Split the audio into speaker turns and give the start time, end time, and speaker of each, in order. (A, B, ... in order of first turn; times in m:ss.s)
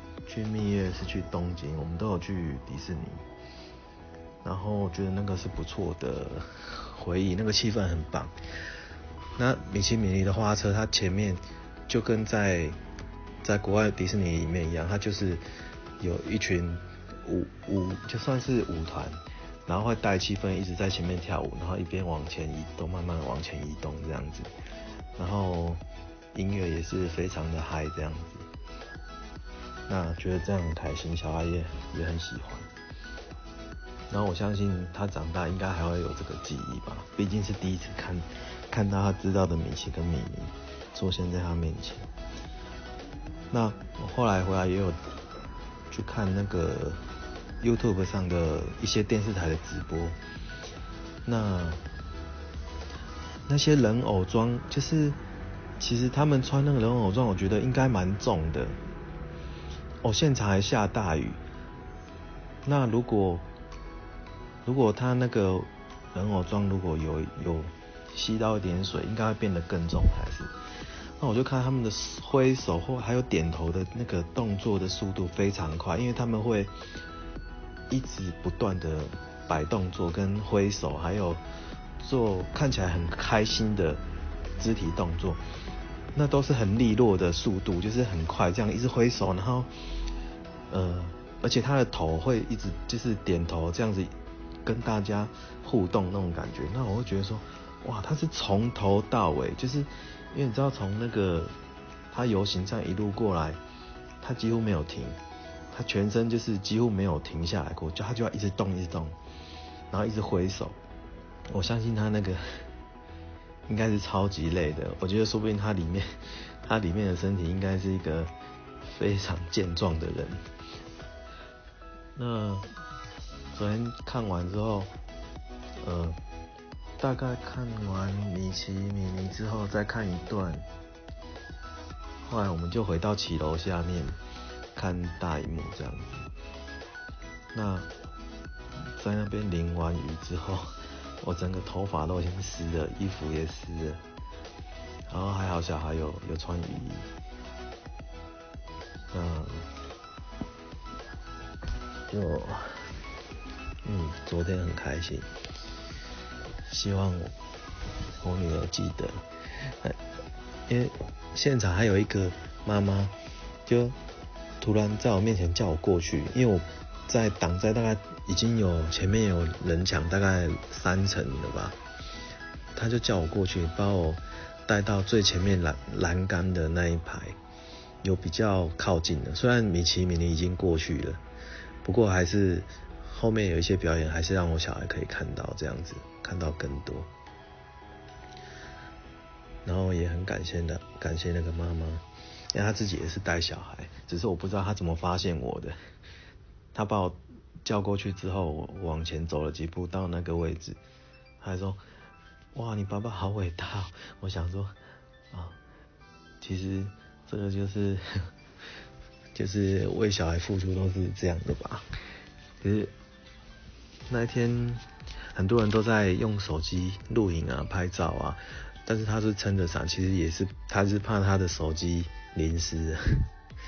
0:00.2-0:03.2 A
0:04.4-0:08.3 A
0:09.4-0:12.8 A
0:13.4-0:15.4 A
0:16.0-0:24.5 A
0:25.2-0:25.8 A
0:26.3-0:28.5 A
0:29.9-0:32.7 A
0:34.1-0:42.1 A
0:43.5-0:45.0 A
0:45.9-0:47.0 A
0:47.6-0:50.2 A
0:51.2-0:51.8 A
0:53.5-0:55.2 A
0:55.8-0:58.8 A
1:00.0-1:01.4 A
1:02.6-1:03.4 A
1:04.6-1:10.5 A
1:11.2-1:16.7 A
1:17.9-1:21.4 A
1:22.0-1:24.0 A
1:24.6-1:25.4 A
1:26.1-1:29.7 A
1:30.7-1:34.1 A
1:34.6-1:41.5 A
1:42.1-1:43.6 A
1:44.2-1:45.2 A
1:45.7-1:49.1 A
1:49.9-1:50.8 A
1:51.5-1:52.4 A
1:53.7-1:58.3 A
1:58.8-2:00.4 A
2:02.2-2:02.7 A
2:03.5-2:04.9 A
2:05.8-2:06.2 A
2:07.0-2:10.7 A
2:12.2-2:14.2 A
2:14.8-2:16.3 A
2:17.5-2:17.9 A
2:18.9-2:24.0 A
2:25.1-2:27.1 A
2:29.1-2:29.6 A
2:32.1-2:32.9 A
2:33.8-2:35.3 A
2:36.6-2:37.3 A
2:38.2-2:40.0 A
2:40.7-2:43.1 A
2:43.6-2:44.0 A
2:44.6-2:51.8 A
2:52.7-2:57.4 A
2:58.0-3:01.2 A
3:01.8-3:07.1 A
3:09.6-3:15.8 A
3:16.7-3:20.8 A
3:21.4-3:21.8 A
3:22.5-3:24.7 A
3:25.3-3:25.6 A
3:26.4-3:28.0 A
3:29.3-3:31.8 A
3:32.6-3:32.9 A
3:34.1-3:43.2 A